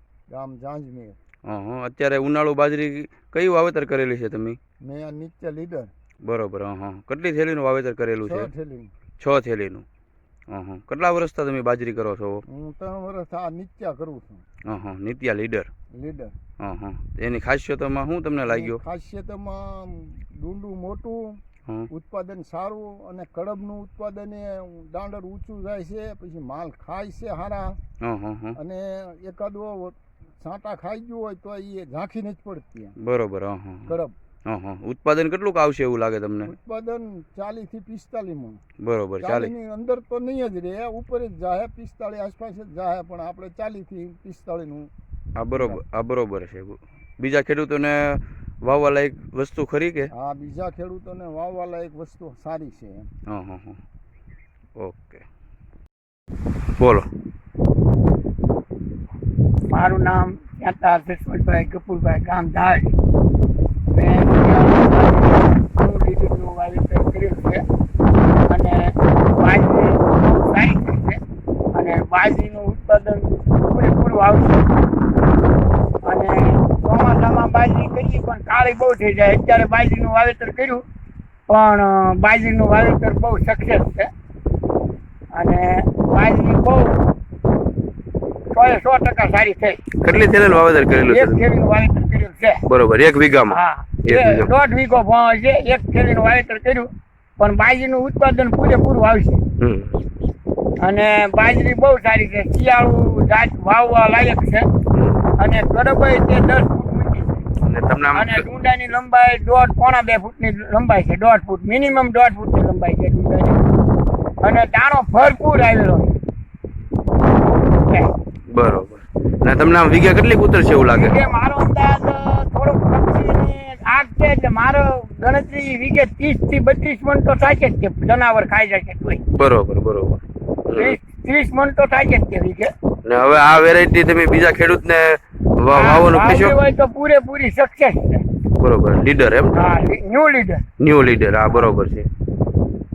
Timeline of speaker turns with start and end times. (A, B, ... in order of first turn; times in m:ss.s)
0:00.3-0:01.2 A
0:01.5-0:04.6 B
0:04.8-0:05.9 A
0:06.2-0:08.5 B
0:08.2-0:08.9 A
0:09.2-0:09.8 B
0:10.5-0:12.4 B
0:12.5-0:14.4 A
0:14.6-0:15.7 B
0:16.0-0:16.3 A
0:16.6-0:18.8 B
0:18.5-0:27.8 A
0:28.0-0:28.6 B
0:28.6-0:33.0 A
0:33.0-0:33.9 B
0:33.9-0:34.1 A
0:34.5-0:36.5 B
0:36.5-0:38.6 A
0:38.8-0:39.5 B
0:39.2-0:44.9 A
0:45.4-0:50.1 B
0:45.5-0:45.8 A
0:50.1-0:53.1 A
0:53.3-0:53.8 B
0:54.8-0:55.2 B
0:56.8-0:57.1 B
0:59.7-1:02.9 C
1:03.9-1:07.6 C
1:09.3-1:11.2 C
1:11.7-1:14.8 C
1:16.0-1:20.8 C
1:21.5-1:24.1 C
1:25.4-1:26.9 C
1:28.5-1:29.9 C
1:29.9-1:31.4 B
1:31.0-1:32.6 C
1:32.7-1:34.5 B
1:33.5-1:36.9 C
1:37.4-1:39.4 C
1:39.6-1:39.9 B
1:40.8-1:44.6 C
1:45.4-1:47.4 C
1:47.6-1:48.5 B
1:48.1-1:53.6 C
1:54.4-1:56.2 C
1:57.8-1:58.1 C
1:58.5-2:01.2 B
2:00.8-2:09.2 C
2:09.3-2:11.0 B
2:10.8-2:12.7 C
2:13.0-2:16.6 B
2:15.7-2:18.3 C
2:18.6-2:19.6 B
2:19.5-2:20.7 C
2:20.8-2:22.1 B